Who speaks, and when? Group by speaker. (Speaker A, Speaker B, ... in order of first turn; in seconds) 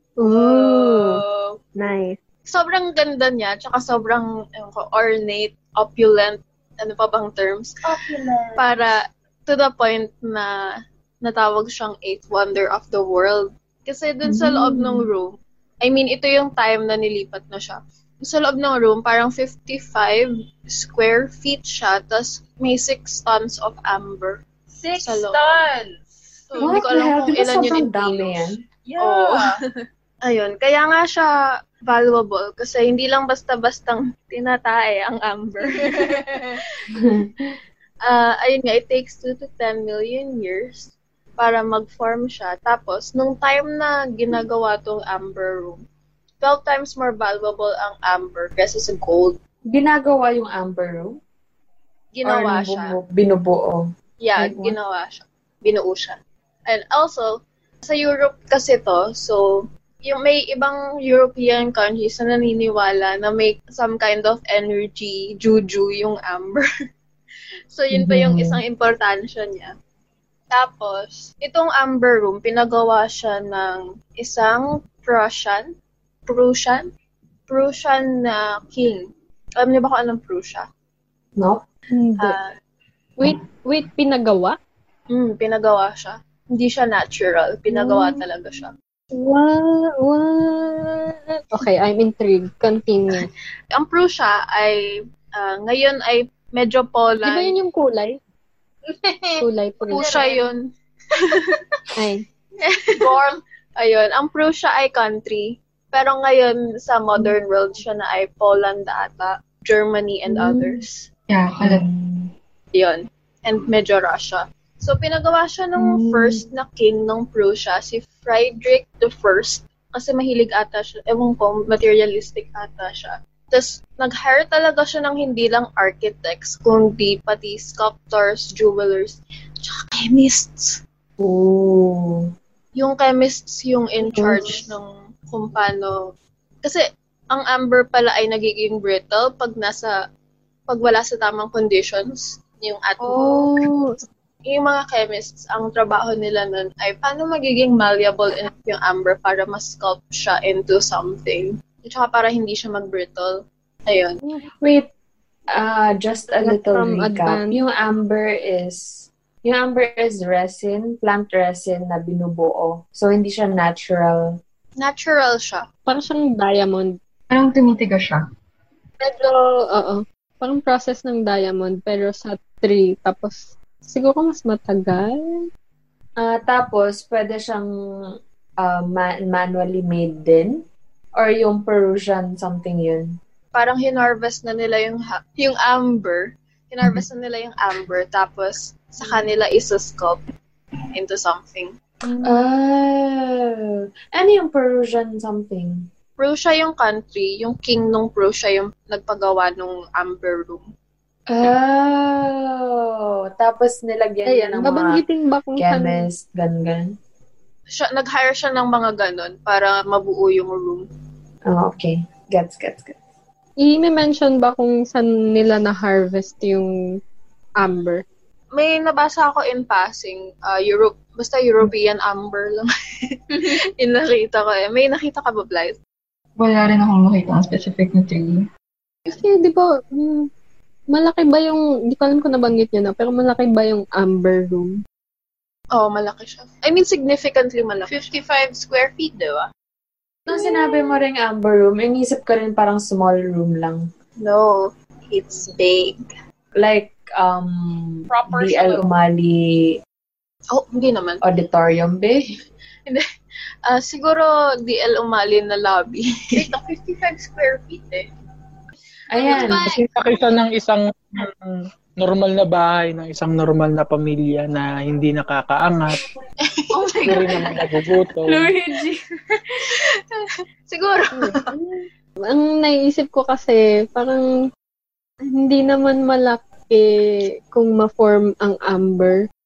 Speaker A: 0.2-1.2, 1.8-2.2, 82.0-82.4, 83.2-84.6, 87.7-88.2, 89.1-93.3, 97.2-98.2, 99.4-100.1, 102.0-102.2, 134.1-134.4, 143.0-143.9, 156.4-157.5, 165.9-167.0, 169.0-175.2, 204.3-206.1, 213.6-216.7, 217.6-218.0, 229.1-230.3, 230.9-234.8, 271.2-274.2, 275.3-279.2
Speaker B: 0.7-1.6, 2.5-7.8, 8.6-10.5, 11.2-15.3, 15.8-24.4, 25.0-25.4, 26.5-28.4, 29.0-29.5, 30.2-31.3, 31.9-36.2, 38.0-45.8, 46.4-49.4, 52.1-52.9, 54.2-57.3, 57.9-66.7, 67.7-69.7, 70.5-75.7, 76.3-76.8, 77.5-79.0, 79.6-80.6, 82.2-82.5, 85.1-88.7, 93.7-97.5, 99.9-100.7, 101.3-101.5, 102.6-103.2, 103.8-111.1, 112.7-130.8, 132.8-136.0, 136.6-139.9, 140.7-143.6, 144.5-154.2, 164.8-165.7, 183.5-190.2, 190.9-191.7, 196.2-200.6, 207.7-210.8, 218.5-222.7, 223.3-225.8, 235.7-238.1, 244.2-246.0, 250.5-251.2, 253.7-256.5, 259.3-259.6, 266.5-267.0, 269.7-271.4
Speaker C: 7.8-8.7, 24.8-25.9, 26.5-26.9, 28.9-29.6, 99.0-99.4, 99.9-100.5, 103.0-103.4, 237.9-239.5, 248.1-248.9, 256.3-258.1, 259.2-259.8
Speaker D: 14.2-15.1, 26.6-28.6, 36.9-37.5, 49.7-51.1, 52.2-53.8, 54.4-54.7, 67.9-68.6, 110.3-110.8, 111.6-112.2, 115.8-116.5, 131.2-132.2, 154.6-154.9, 155.5-164.4, 176.2-177.7, 178.6-180.6, 181.2-183.2, 192.2-195.9, 201.3-205.0, 205.6-206.9, 211.5-213.0, 240.3-243.8, 246.6-249.7, 251.2-252.2, 259.1-259.6, 266.8-267.2, 268.3-269.0
Speaker E: 111.3-111.9, 167.3-168.2, 226.4-228.4
Speaker F: 259.6-266.0, 267.1-268.3